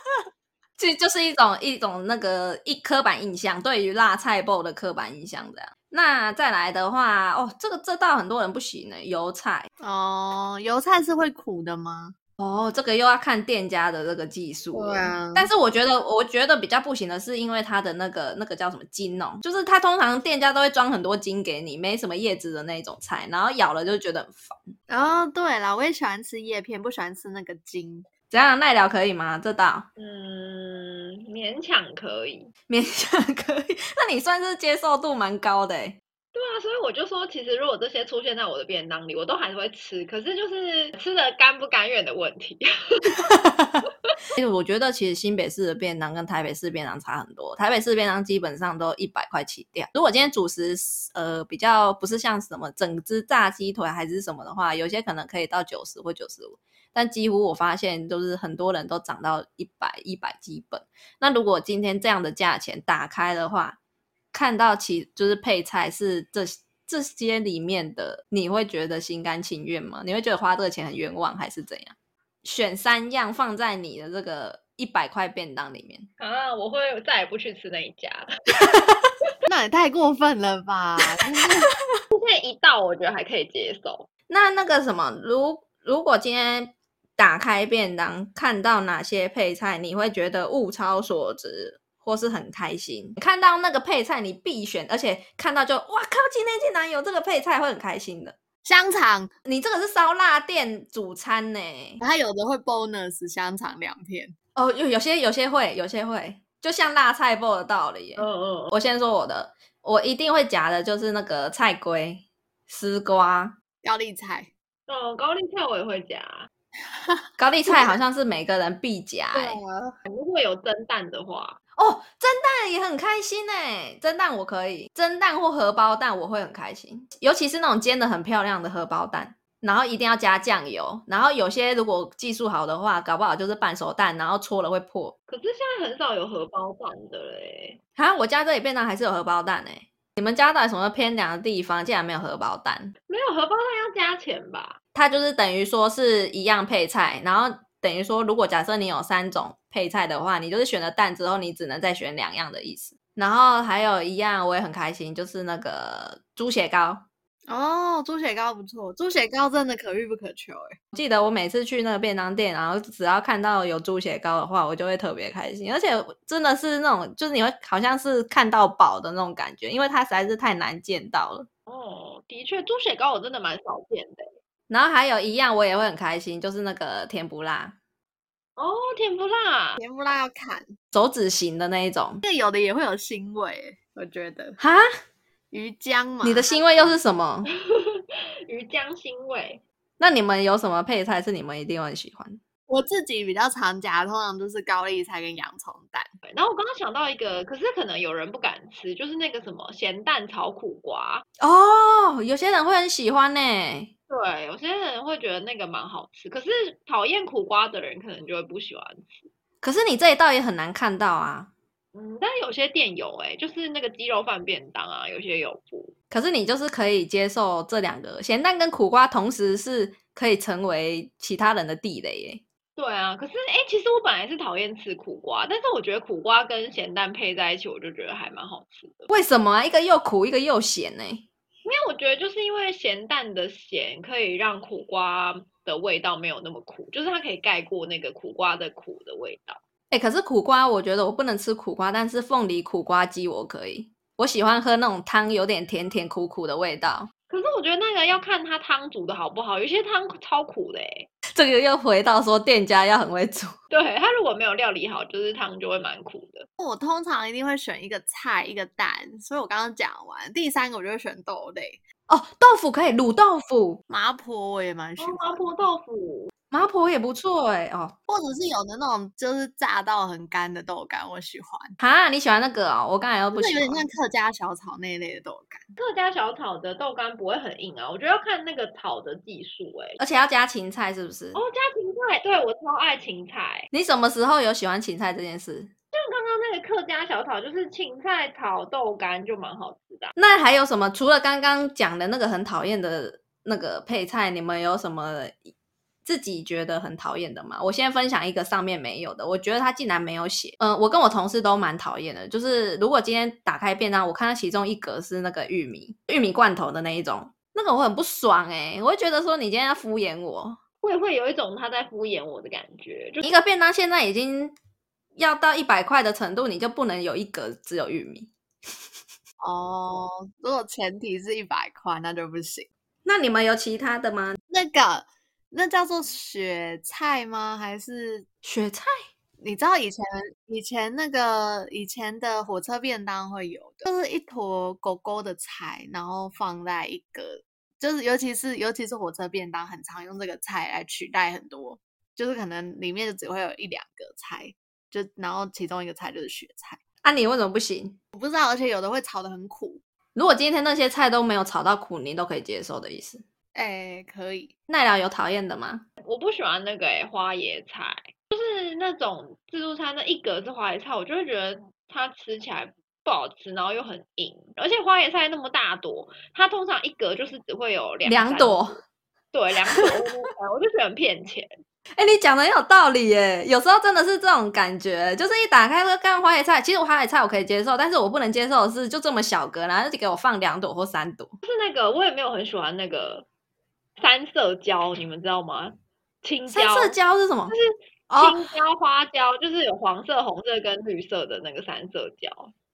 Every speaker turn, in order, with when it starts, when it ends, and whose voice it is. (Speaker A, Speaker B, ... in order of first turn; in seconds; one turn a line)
Speaker A: 0.8-9.7
Speaker B: 9.8-12.1
Speaker A: 12.4-24.7
Speaker B: 14.7-15.5
Speaker B: 24.9-28.1
Speaker A: 28.3-29.9
Speaker C: 30.0-32.5
Speaker A: 32.7-36.0
Speaker C: 36.3-43.2
Speaker A: 43.3-43.8
Speaker A: 44.4-63.8
Speaker A: 64.3-76.1
Speaker C: 76.2-78.3
Speaker B: 79.4-81.7
Speaker C: 82.1-84.1
Speaker A: 84.3-98.4
Speaker B: 98.6-99.3
Speaker A: 99.4-102.0
Speaker B: 102.0-104.3
Speaker A: 104.5-113.5
Speaker C: 108.2-108.7
Speaker B: 113.8-114.5
Speaker C: 114.9-116.5
Speaker B: 116.9-117.9
Speaker A: 117.4-119.6
Speaker B: 119.3-120.0
Speaker C: 120.0-121.6
Speaker A: 121.8-135.1
Speaker C: 135.3-137.8
Speaker A: 138.0-142.9
Speaker C: 143.1-144.8
Speaker A: 144.9-157.1
Speaker B: 157.5-160.8
Speaker A: 160.9-171.5
Speaker C: 171.7-174.3
Speaker A: 174.7-177.8
Speaker C: 178.6-179.8
Speaker B: 179.8-180.7
Speaker A: 180.9-182.2
Speaker B: 182.2-184.6
Speaker A: 184.6-184.8
Speaker B: 185.5-186.9
Speaker A: 186.2-187.5
Speaker C: 187.7-189.6
Speaker A: 190.0-192.4
Speaker B: 192.7-196.1
Speaker C: 196.2-201.2
Speaker A: 201.4-203.9
Speaker C: 204.1-209.3
Speaker A: 209.6-211.5
Speaker C: 211.9-215.9
Speaker A: 216.1-222.4
Speaker C: 222.8-229.1
Speaker A: 229.1-231.2
Speaker C: 231.6-239.6
Speaker A: 239.9-247.1
Speaker C: 247.3-251.1
Speaker A: 251.3-253.5
Speaker C: 253.7-256.5
Speaker B: 256.6-261.8
Speaker A: 262.1-263.8
Speaker B: 263.9-265.5
Speaker C: 265.0-266.3
Speaker A: 266.5-267.9
Speaker B: 268.1-271.8
Speaker A: 271.8-273.8
Speaker B: 273.3-275.7
Speaker C: 275.8-280.0
Speaker A: 280.0-281.4
Speaker C: 281.3-283.7
Speaker A: 283.7-285.7
Speaker C: 285.9-290.1
Speaker A: 290.1-295.5
Speaker A: 296.0-310.6
Speaker C: 310.8-313.3
Speaker A: 313.2-314.5
Speaker A: 315.1-318.3
Speaker B: 319.4-322.7
Speaker A: 323.0-324.4
Speaker B: 324.5-328.2
Speaker A: 328.4-328.9
Speaker B: 329.4-346.8
Speaker A: 347.0-348.0
Speaker B: 348.1-349.8
Speaker A: 350.1-353.2
Speaker B: 353.5-354.5
Speaker A: 354.7-355.8
Speaker C: 356.0-371.5
Speaker A: 368.0-368.8
Speaker A: 372.0-381.3
Speaker C: 381.4-383.2
Speaker C: 384.0-387.0
Speaker A: 386.5-387.5
Speaker C: 387.5-392.5
Speaker A: 388.1-388.4